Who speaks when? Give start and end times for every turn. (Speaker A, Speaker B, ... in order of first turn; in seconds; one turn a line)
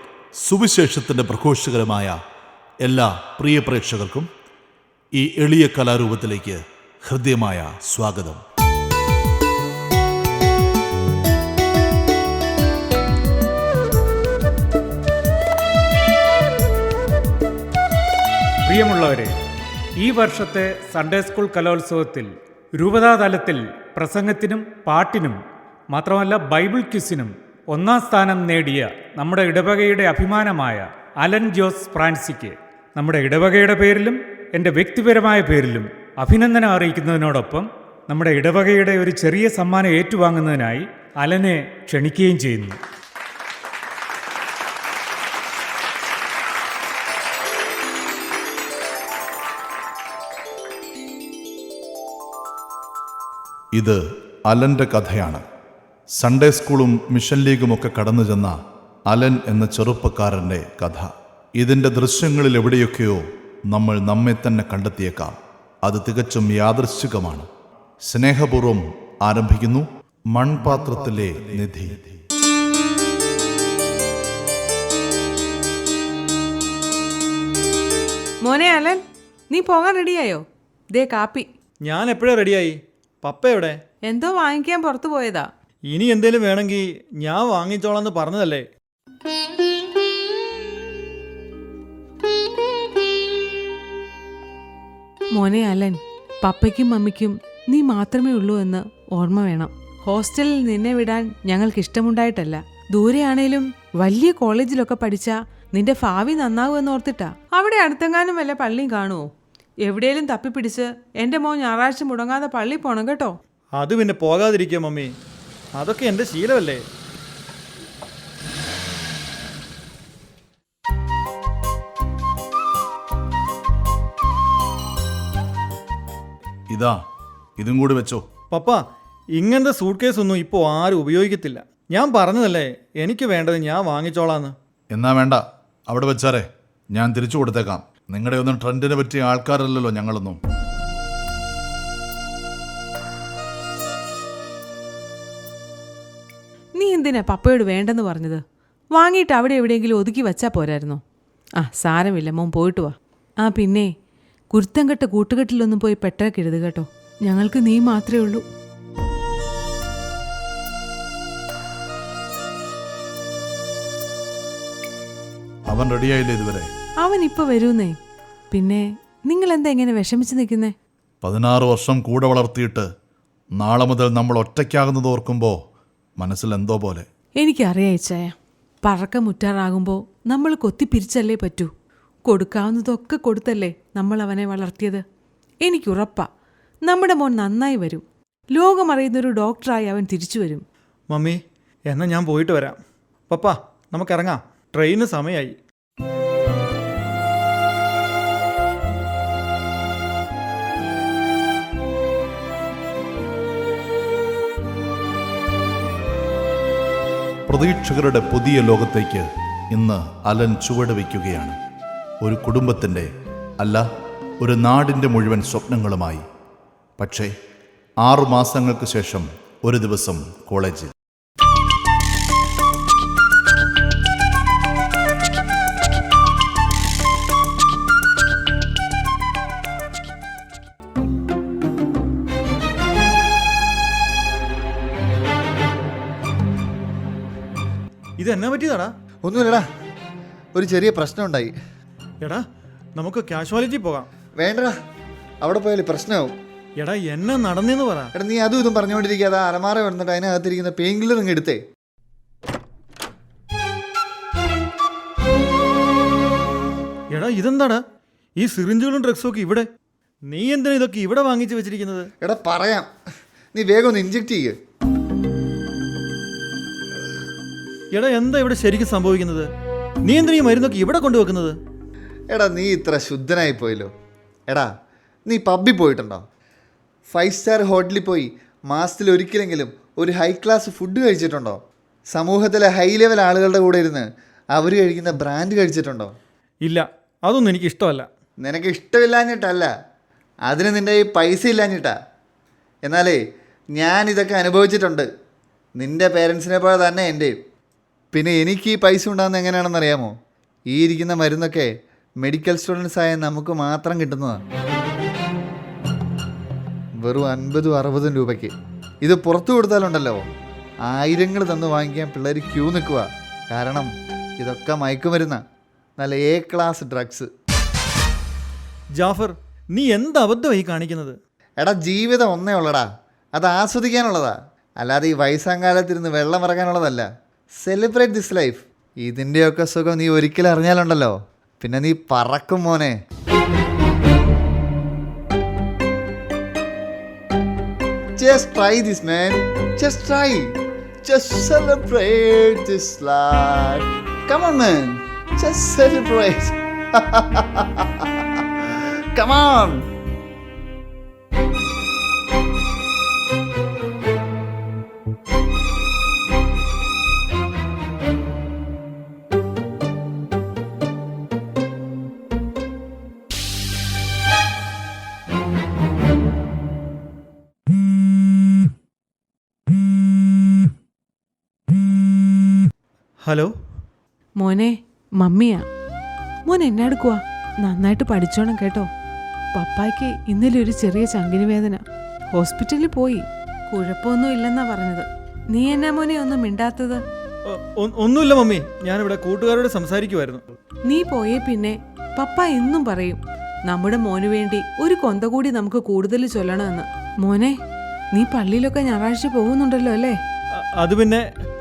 Speaker A: 0.4-2.2
Speaker A: 2.8-4.3
Speaker A: 5.2-8.4
Speaker B: 18.6-19.4
Speaker B: 20.0-42.8
Speaker A: 53.7-55.4
Speaker A: 56.2-58.5
Speaker A: 59.1-67.5
Speaker A: 68.0-72.1
Speaker C: 78.4-81.5
Speaker D: 81.8-83.8
Speaker C: 84.0-85.5
Speaker D: 85.9-88.7
Speaker C: 95.3-109.2
Speaker C: 109.8-113.3
Speaker D: 113.8-115.1
Speaker D: 115.8-116.8
Speaker A: 126.7-127.0
Speaker A: 127.6-128.2
Speaker D: 128.5-128.8
Speaker D: 129.4-134.5
Speaker A: 134.9-140.4
Speaker C: 146.8-148.4
Speaker C: 148.9-151.0
Speaker C: 151.6-153.9
Speaker C: 154.5-158.4
Speaker A: 165.7-166.7
Speaker C: 167.0-167.9
Speaker C: 168.5-170.7
Speaker A: 171.2-172.9
Speaker A: 173.6-175.6
Speaker A: 176.2-177.1
Speaker C: 177.4-181.7
Speaker C: 182.2-185.0
Speaker C: 185.6-186.3
Speaker C: 186.8-190.6
Speaker D: 191.1-191.4
Speaker D: 191.9-192.8
Speaker D: 193.3-195.5
Speaker A: 207.5-211.6
Speaker A: 212.2-213.8
Speaker A: 214.4-216.2
Speaker A: 217.0-217.3
Speaker A: 218.0-220.9
Speaker D: 238.2-238.9
Speaker E: 239.2-239.6
Speaker E: 240.5-241.5
Speaker D: 242.9-244.1
Speaker E: 244.4-244.7
Speaker E: 245.4-246.3
Speaker D: 246.8-248.1
Speaker E: 248.1-251.6
Speaker D: 257.1-257.8
Speaker D: 258.4-259.7
Speaker D: 260.3-262.1
Speaker E: 262.2-262.9
Speaker E: 263.5-264.6
Speaker D: 267.9-269.5
Speaker D: 270.0-271.6
Speaker E: 272.3-273.9
Speaker E: 275.3-276.2
Speaker E: 277.1-281.6
Speaker E: 282.1-286.1
Speaker D: 286.6-288.1
Speaker E: 288.4-289.7
Speaker E: 290.4-291.9
Speaker E: 292.8-293.2
Speaker E: 293.7-295.1
Speaker E: 295.8-297.3
Speaker E: 298.1-300.1
Speaker E: 300.7-304.4
Speaker E: 307.0-310.2
Speaker E: 310.8-315.4
Speaker E: 316.0-317.3
Speaker D: 319.0-321.2
Speaker E: 321.6-327.1
Speaker E: 327.6-333.0
Speaker E: 338.2-349.9
Speaker D: 373.2-373.5
Speaker C: 374.4-375.6
Speaker C: 376.4-378.9
Speaker C: 379.5-387.0
Speaker D: 387.5-390.4
Speaker C: 390.9-397.6
Speaker C: 398.1-400.2
Speaker D: 400.6-401.2